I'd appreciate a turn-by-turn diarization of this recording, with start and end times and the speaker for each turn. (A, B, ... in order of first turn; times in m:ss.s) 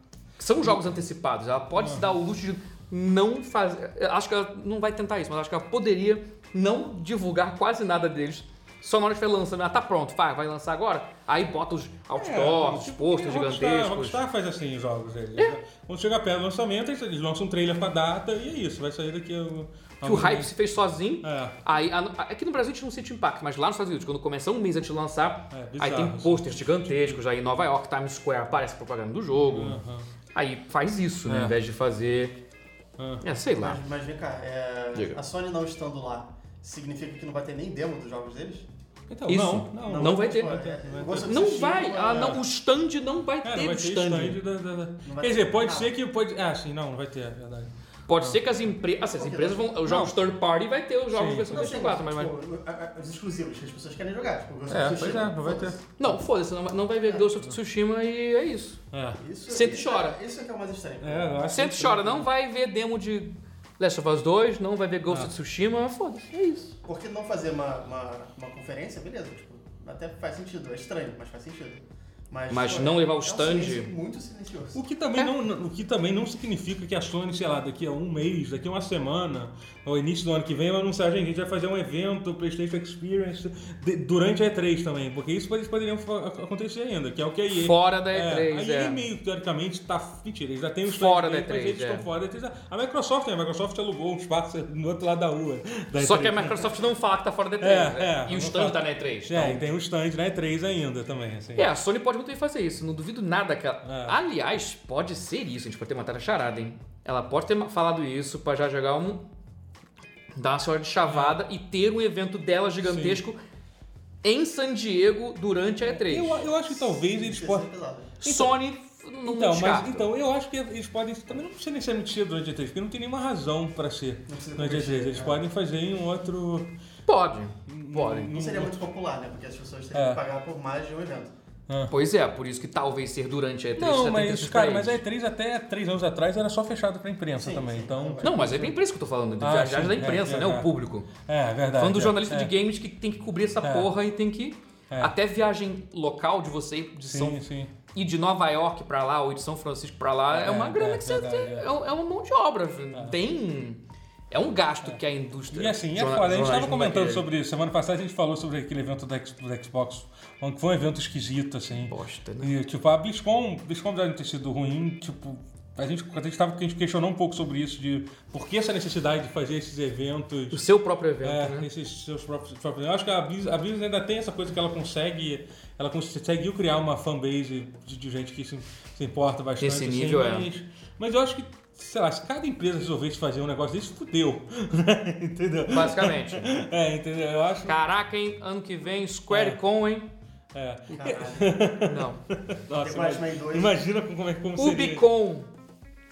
0:00.4-0:14.2 A
0:01.8-0:02.2 B
0:12.1-0:20.5 B
0:20.0-0:29.8 A
0:21.2-0:21.6 B
0:25.5-0:27.2 B
0:29.4-0:30.1 B
0:30.3-0:32.4 A
0:31.3-0:31.6 B
0:33.0-0:33.2 B
0:33.2-0:33.8 A
0:33.5-0:38.7 C
0:39.1-0:41.3 B
0:39.3-0:40.6 A
0:39.8-0:42.4 C
0:41.1-0:44.4 A
0:42.1-0:42.4 B
0:43.4-0:48.4 B
0:45.0-0:45.9 C
0:48.1-0:52.3 A
0:49.1-0:49.8 C
0:49.8-0:50.2 B
0:51.1-0:51.8 B
0:51.5-0:55.8 C
0:54.7-0:55.8 B
0:56.0-0:58.8 A
0:58.9-0:59.2 B
0:59.2-1:01.5 C
0:59.5-1:00.2 A
1:01.0-1:02.3 B
1:01.5-1:06.7 A
1:06.8-1:14.8 C
1:12.5-1:13.9 A
1:14.7-1:36.6 B
1:27.5-1:29.0 A
1:30.9-1:32.1 A
1:36.0-1:39.6 A
1:37.6-1:41.7 B
1:41.6-1:49.2 A
1:43.8-1:44.2 B
1:50.3-1:53.4 A
1:51.1-1:51.4 B
1:52.8-1:53.2 B
1:54.2-1:56.4 A
1:55.9-1:57.7 B
1:56.9-1:58.2 C
1:58.2-2:00.1 A
1:58.2-1:58.6 B
1:59.2-2:06.7 B
2:04.3-2:05.4 C
2:07.1-2:08.3 A
2:07.7-2:08.8 B
2:08.2-2:11.3 C
2:09.9-2:10.2 B
2:11.9-2:15.0 A
2:13.8-2:18.5 B
2:17.4-2:18.8 C
2:18.2-2:21.1 A
2:19.4-2:22.5 B
2:21.7-2:37.2 A
2:23.6-2:23.9 B
2:24.9-2:25.2 B
2:27.0-2:27.7 B
2:30.3-2:31.7 B
2:35.5-2:50.6 B
2:41.8-2:42.6 A
2:50.5-2:51.7 A
2:51.2-3:07.8 B
2:59.6-3:00.5 A
3:05.7-3:06.5 A
3:07.6-3:10.1 A
3:09.3-3:09.6 B
3:10.5-3:15.1 B
3:10.9-3:11.5 C
3:11.8-3:12.2 A
3:12.8-3:13.8 C
3:14.6-3:15.5 A